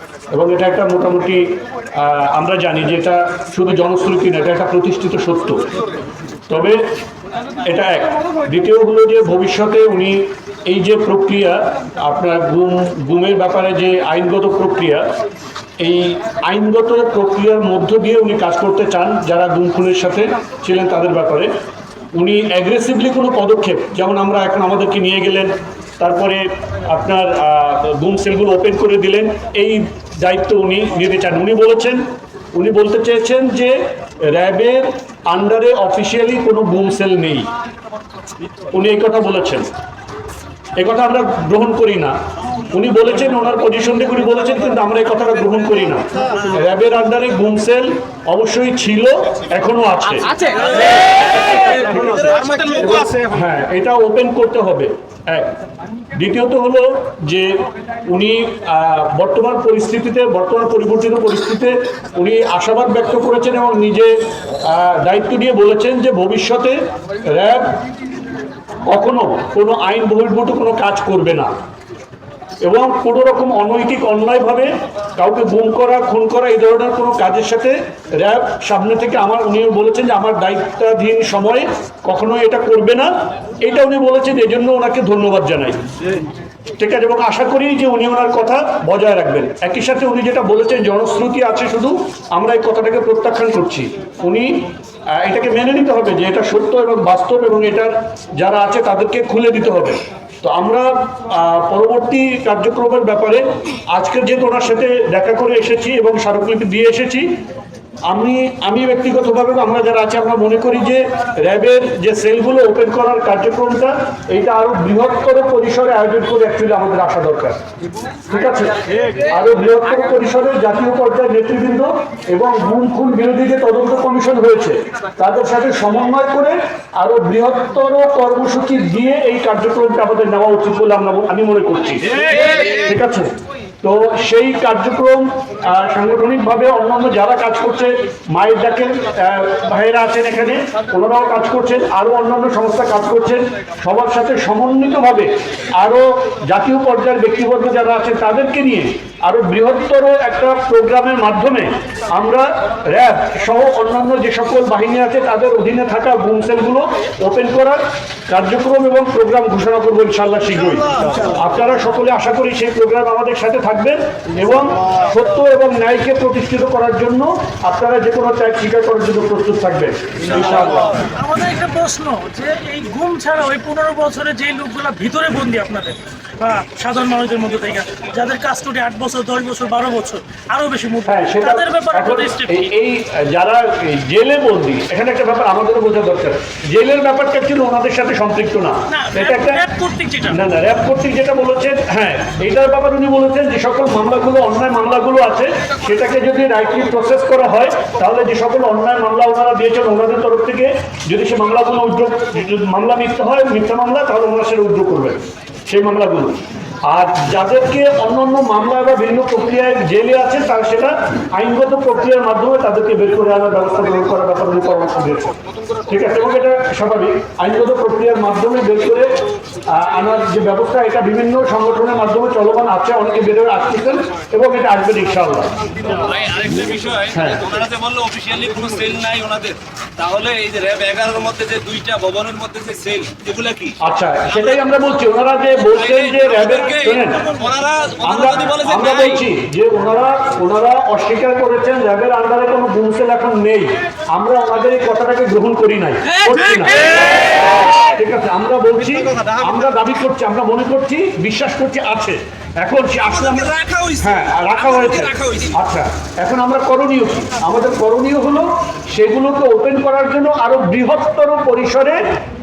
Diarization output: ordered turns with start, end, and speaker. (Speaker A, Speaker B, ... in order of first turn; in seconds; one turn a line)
Speaker A: 0.3-5.7
Speaker A: 6.5-6.8
Speaker A: 7.6-15.0
Speaker A: 15.8-21.5
Speaker A: 22.1-32.0
Speaker A: 32.5-37.5
Speaker A: 38.7-39.7
Speaker A: 40.8-50.5
Speaker A: 51.7-55.6
Speaker A: 56.1-67.8
Speaker A: 68.9-71.5
Speaker A: 72.6-85.8
Speaker A: 86.8-107.3
Speaker A: 108.1-117.6
Speaker A: 118.2-133.3
Speaker A: 133.8-170.9
Speaker B: 171.0-182.7
Speaker A: 181.0-189.7
Speaker B: 188.9-190.4
Speaker A: 190.3-215.3
Speaker A: 215.8-219.1
Speaker A: 219.7-225.6
Speaker C: 226.0-233.8
Speaker A: 227.1-227.4
Speaker A: 233.8-237.3
Speaker C: 236.1-238.9
Speaker A: 238.0-247.2
Speaker A: 247.8-262.0
Speaker C: 253.3-254.1
Speaker C: 254.8-255.5